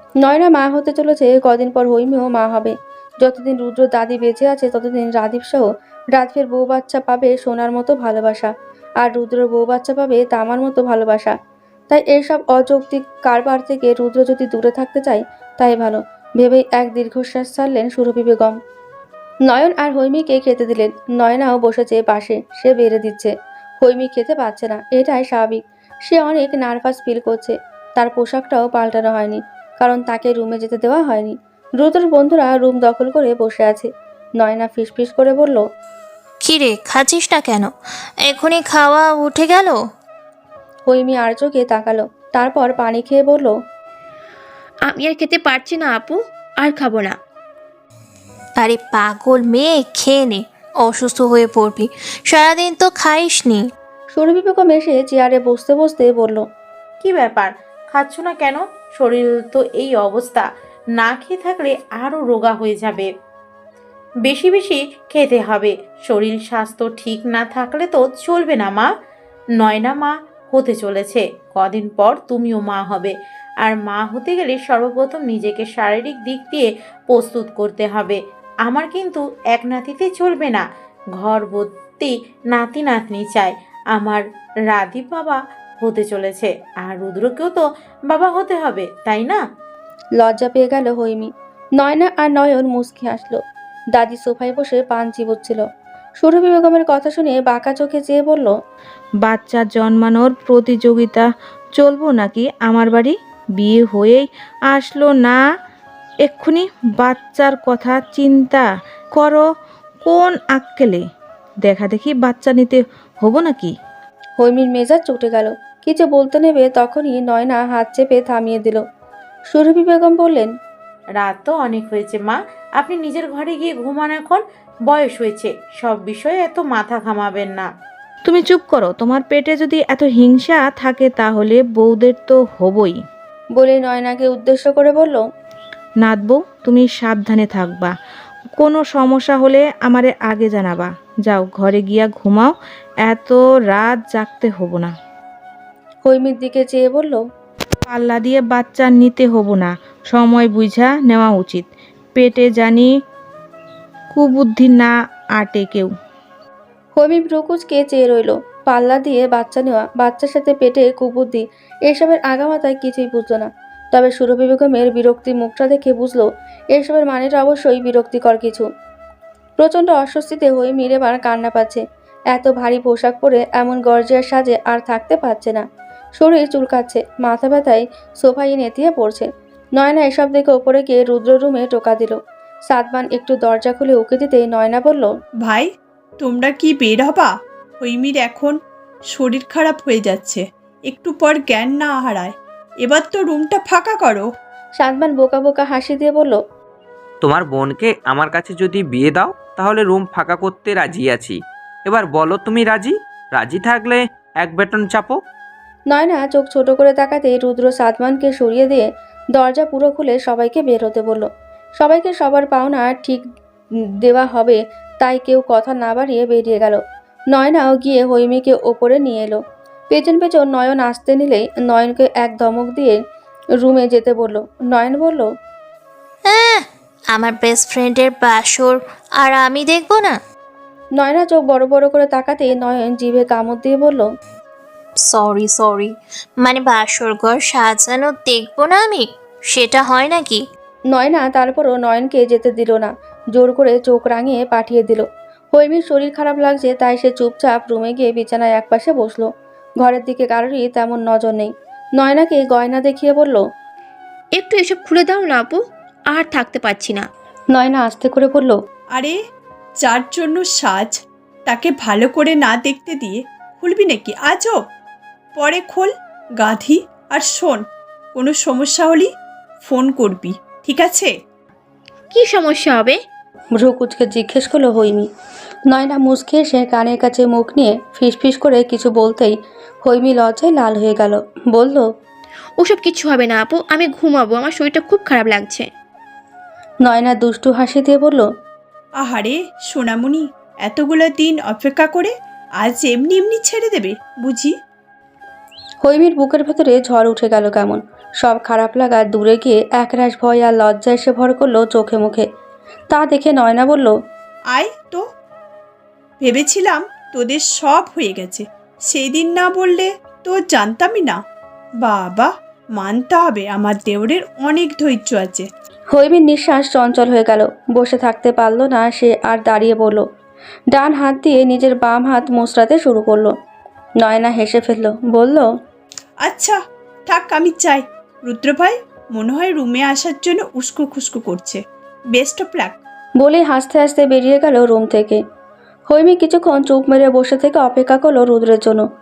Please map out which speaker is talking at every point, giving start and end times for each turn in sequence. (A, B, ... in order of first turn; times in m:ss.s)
0:00.2-0:11.4 A
0:11.9-0:18.6 A
0:19.5-0:35.6 A
0:36.4-0:37.7 B
0:38.3-0:39.9 B
0:40.9-0:43.5 A
0:44.9-0:47.2 C
0:48.6-0:53.7 B
0:54.2-0:56.4 A
0:57.0-1:03.1 D
1:04.2-1:08.9 D
1:09.6-1:20.6 D
1:21.2-1:29.4 D
1:30.2-1:33.4 A
1:34.0-1:35.6 A
1:36.2-1:38.5 A
1:39.2-1:45.4 E
1:46.3-1:49.4 E
1:50.0-1:51.0 E
1:51.7-1:53.7 E
1:54.4-1:58.8 A
1:59.5-2:00.5 A
2:01.2-2:07.7 D
2:08.3-2:13.0 E
2:13.6-2:15.2 A
2:16.0-2:17.9 E
2:18.6-2:22.5 E
2:23.1-2:24.9 E
2:26.1-2:27.2 A
2:27.9-2:32.9 E
2:34.1-2:35.9 E
2:37.0-2:48.7 A
2:49.6-2:55.7 A
2:56.2-3:02.2 A
3:02.7-3:05.1 A
3:06.2-3:08.6 F
3:09.1-3:14.3 F
3:14.8-3:16.4 A
3:17.2-3:25.2 G
3:25.9-3:31.3 A
3:31.8-3:33.2 A
3:34.0-3:36.8 A
3:37.3-3:43.0 A
3:43.6-3:45.3 A
3:46.3-3:50.2 B
3:51.0-3:54.1 A
3:55.0-4:00.4 B
4:00.9-4:09.3 A
4:09.8-4:13.4 A
4:14.4-4:17.1 C
4:17.5-4:18.6 A
4:19.8-4:24.6 F
4:25.4-4:27.6 F
4:28.2-4:29.1 F
4:29.6-4:31.1 F
4:32.1-4:33.0 C
4:33.6-4:35.1 A
4:35.7-4:41.9 A
4:42.6-4:45.7 C
4:46.8-4:48.3 A
4:49.0-4:54.6 F
4:55.8-5:02.2 A
5:02.9-5:04.0 A
5:04.5-5:05.0 F
5:06.2-5:11.2 F
5:11.8-5:15.5 F
5:15.9-5:20.0 A
5:20.7-5:23.3 A
5:24.0-5:25.5 A
5:26.2-5:26.6 F
5:27.1-5:31.6 F
5:32.1-5:32.8 F
5:33.2-5:35.2 A
5:35.9-5:38.8 A